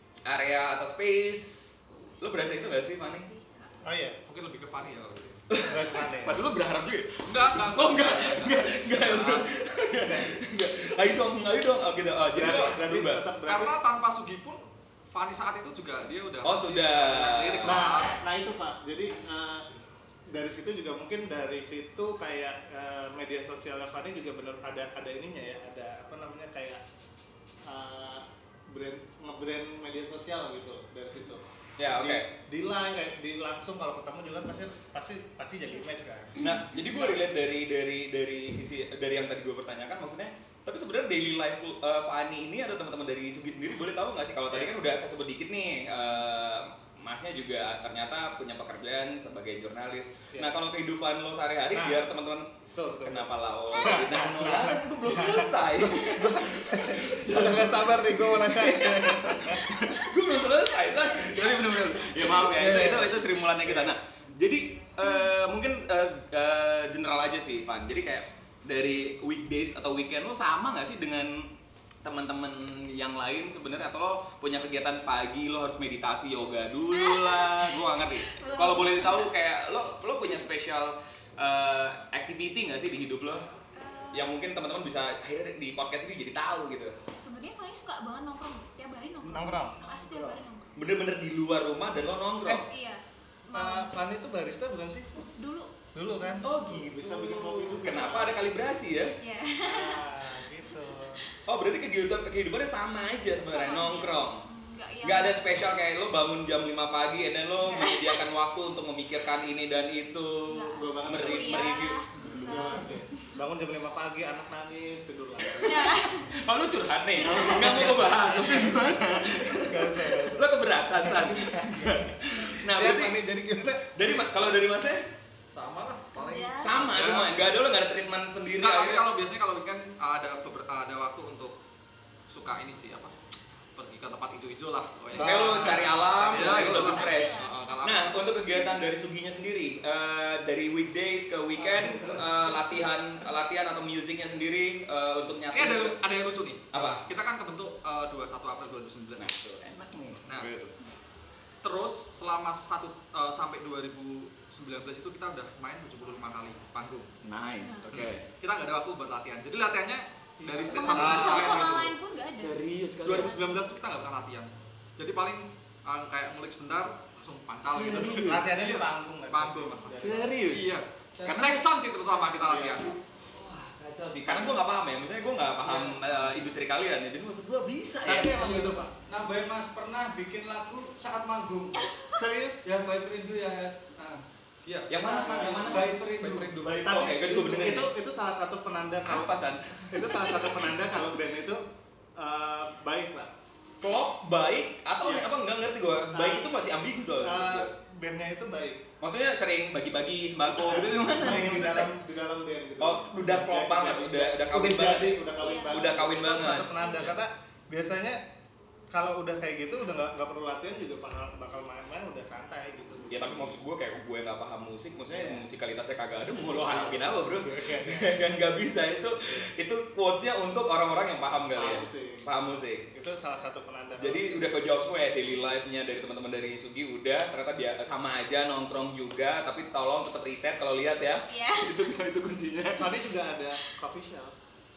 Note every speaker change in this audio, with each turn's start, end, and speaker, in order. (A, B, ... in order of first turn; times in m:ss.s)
0:00.2-0:03.3 A
0:01.9-0:03.8 B
0:03.8-0:04.2 C
0:04.2-0:05.4 D
0:05.5-0:13.3 A
0:05.6-0:06.4 C
0:07.2-0:09.5 D
0:10.0-0:10.3 C
0:12.3-0:13.8 C
0:13.4-0:18.2 D
0:16.4-0:17.9 A
0:17.6-0:19.7 C
0:20.3-0:26.8 C
0:27.7-0:37.2 C
0:31.8-0:32.3 A
0:36.4-1:11.5 A
0:44.5-0:44.8 C
0:51.7-0:52.1 C
0:52.8-0:59.7 C
0:53.7-0:54.1 B
1:00.5-1:02.4 B
1:02.5-1:04.0 C
1:05.0-1:05.3 B
1:12.0-1:23.4 A
1:16.9-1:19.3 B
1:23.8-1:24.3 B
1:24.1-1:27.0 A
1:27.2-1:30.8 B
1:29.2-1:29.8 C
1:29.8-1:32.6 A
1:32.7-1:33.9 B
1:33.5-1:35.1 C
1:35.4-1:36.5 B
1:36.0-1:38.4 C
1:36.4-1:39.1 A
1:39.2-1:41.4 B
1:39.6-1:41.2 C
1:41.5-1:44.4 A
1:43.4-1:45.6 B
1:45.0-1:52.0 A
1:47.6-1:48.2 B
1:50.5-1:53.3 B
1:50.7-1:55.9 C
1:55.6-2:03.2 A
1:55.6-1:56.3 B
1:57.1-1:58.4 B
1:57.2-2:04.5 C
2:04.0-2:05.1 A
2:05.5-2:07.5 D
2:06.1-2:06.8 B
2:06.6-2:09.1 A
2:08.6-2:11.6 D
2:12.3-2:13.2 D
2:13.8-2:18.3 D
2:15.2-2:16.0 C
2:15.2-2:26.0 A
2:16.7-2:18.7 B
2:21.6-2:22.6 E
2:21.6-2:22.7 D
2:25.5-2:29.4 D
2:26.7-2:27.0 A
2:29.2-2:30.7 A
2:31.6-2:37.1 D
2:37.2-2:38.3 A
2:37.9-2:41.9 D
2:40.7-2:42.6 B
2:40.9-2:41.8 A
2:41.0-2:41.5 C
2:42.3-2:43.4 A
2:43.0-2:53.0 D
2:43.1-2:43.6 B
2:47.7-2:48.5 A
2:48.2-2:50.4 C
2:50.0-2:50.7 A
2:51.2-2:51.4 E
2:51.3-2:51.7 A
2:52.4-2:52.9 C
2:53.3-2:58.8 A
2:55.7-2:56.0 E
2:58.0-2:58.9 C
2:58.3-3:02.0 E
3:02.1-3:02.6 C
3:02.6-3:04.2 E
3:04.6-3:07.1 D
3:04.9-3:06.0 A
3:05.0-3:06.5 E
3:06.6-3:07.9 A
3:06.8-3:09.3 C
3:09.1-3:10.9 A
3:09.9-3:11.6 C
3:12.2-3:13.3 C
3:13.8-3:17.7 A
3:15.0-3:15.3 C
3:16.1-3:16.5 C
3:17.2-3:18.8 C
3:19.0-3:21.9 A
3:20.6-3:28.2 C
3:22.8-3:26.7 A
3:25.4-3:25.8 B
3:26.9-3:27.2 D
3:28.9-3:33.6 C
3:33.1-3:42.9 A
3:35.1-3:35.5 C
3:36.5-3:38.2 C
3:41.6-3:42.3 C
3:42.9-3:44.2 C
3:44.0-3:52.9 A
3:51.2-3:51.8 B
3:52.8-3:54.4 C